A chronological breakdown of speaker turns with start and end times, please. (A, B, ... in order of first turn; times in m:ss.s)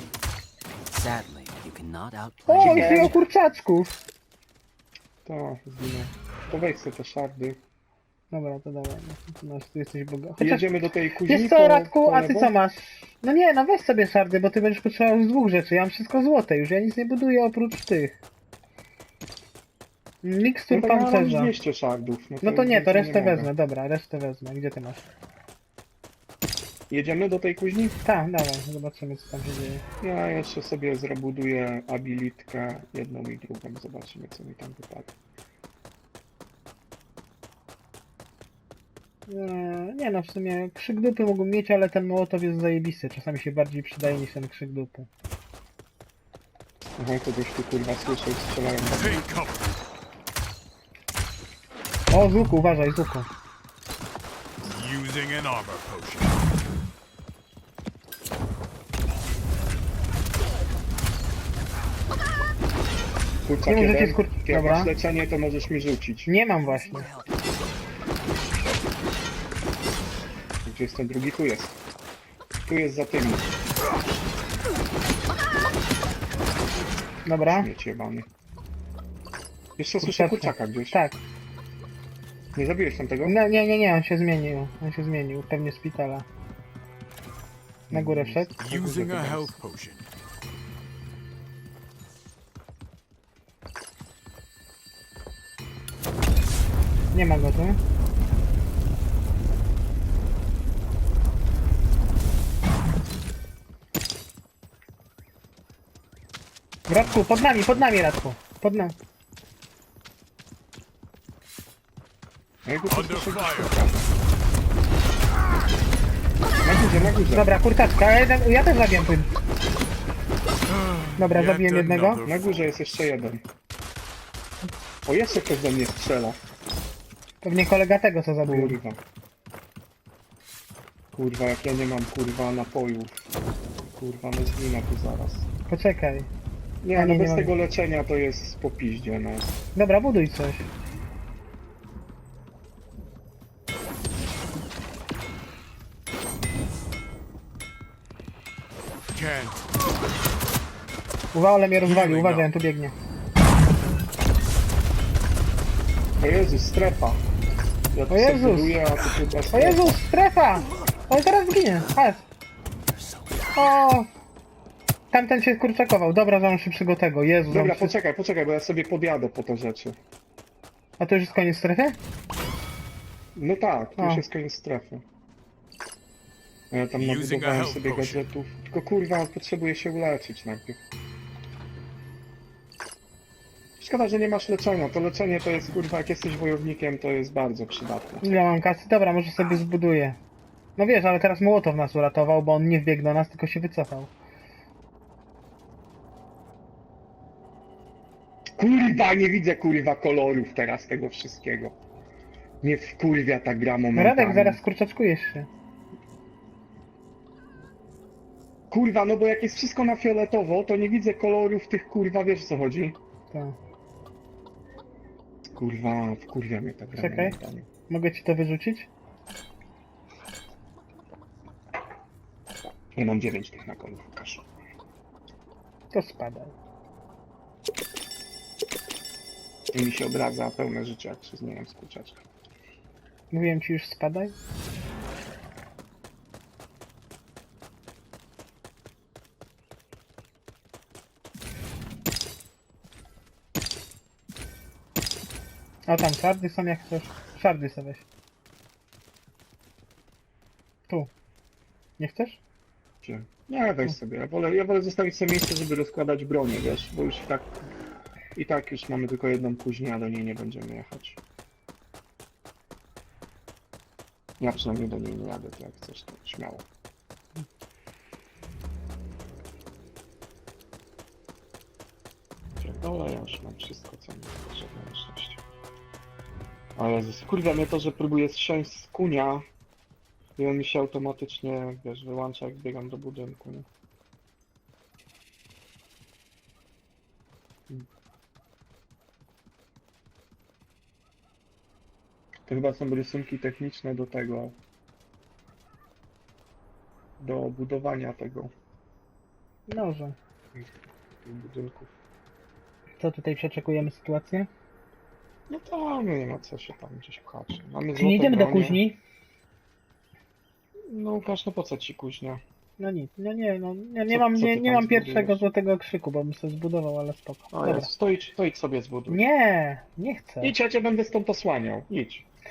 0:00.9-0:03.2 A
0:02.4-0:03.9 B
0:02.5-0:03.1 C
0:05.2-0:07.6 C
0:08.3-0:18.2 B
0:10.4-0:12.5 C
0:20.2-0:21.5 B
0:20.7-0:23.5 C
0:22.4-0:25.0 B
0:26.9-0:28.0 C
0:28.0-0:29.8 B
0:30.0-0:35.1 C
0:39.3-0:45.1 B
0:47.0-0:49.2 C
0:49.0-0:49.8 D
0:52.1-0:53.3 B
0:54.7-0:56.4 D
1:03.4-1:06.3 C
1:03.7-1:04.9 B
1:06.2-1:07.1 B
1:06.6-1:07.4 A
1:10.6-1:11.8 C
1:12.6-1:13.5 C
1:17.2-1:17.7 B
1:17.4-1:18.3 C
1:19.8-1:21.0 C
1:20.0-1:21.2 B
1:22.5-1:23.4 C
1:23.2-1:26.3 B
1:27.9-1:28.6 B
1:27.9-1:29.5 C
1:28.6-1:30.1 D
1:37.1-1:37.8 B
1:46.9-1:49.0 B
1:52.6-1:54.1 C
1:52.9-1:53.8 D
1:56.6-1:57.5 C
1:57.3-1:59.3 B
2:00.6-2:02.3 D
2:01.2-2:02.2 B
2:02.2-2:03.4 C
2:05.0-2:06.4 C
2:07.4-2:08.8 B
2:08.4-2:09.0 C
2:11.1-2:13.2 C
2:13.9-2:15.5 C
2:15.7-2:16.3 B
2:16.8-2:19.5 C
2:16.9-2:17.5 B
2:19.8-2:20.7 B
2:29.1-2:29.6 D
2:31.3-2:32.9 B
2:31.8-2:32.5 D
2:36.2-2:37.2 C
2:37.9-2:40.0 C
2:38.1-2:38.8 B
2:39.5-2:42.2 B
2:42.9-2:43.6 A
2:43.5-2:44.1 B
2:45.1-2:47.9 B
2:47.5-2:50.0 C
2:51.0-2:52.0 B
2:53.3-2:55.0 C
2:54.0-2:54.2 B
2:56.7-3:00.8 C
2:57.0-2:58.2 D
3:03.8-3:08.2 C
3:08.2-3:10.2 B
3:10.8-3:14.1 B
3:18.6-3:21.8 C
3:22.6-3:24.6 C
3:23.9-3:25.5 B
3:28.7-3:33.0 C
3:33.3-3:33.6 B
3:35.6-3:37.7 C
3:37.0-3:37.4 B
3:37.9-3:38.9 B
3:42.9-3:44.5 C
3:45.9-3:46.5 B
3:49.7-3:52.2 C
3:53.3-3:54.3 B
4:05.9-4:08.0 B
4:12.0-4:12.4 B
4:13.0-4:17.5 C
4:18.3-4:21.2 C
4:24.4-4:26.6 C
4:32.6-4:35.4 C
4:36.8-4:39.4 C
4:40.4-4:43.7 C
4:52.5-4:54.6 C
4:57.2-4:58.5 C
4:59.7-5:00.2 B
5:00.5-5:01.9 C
5:03.0-5:04.5 B
5:05.5-5:08.8 C
5:07.9-5:09.0 B
5:10.9-5:12.4 C
5:12.8-5:17.9 B
5:14.1-5:15.4 C
5:17.5-5:19.2 C
5:19.1-5:20.5 B
5:20.4-5:22.3 C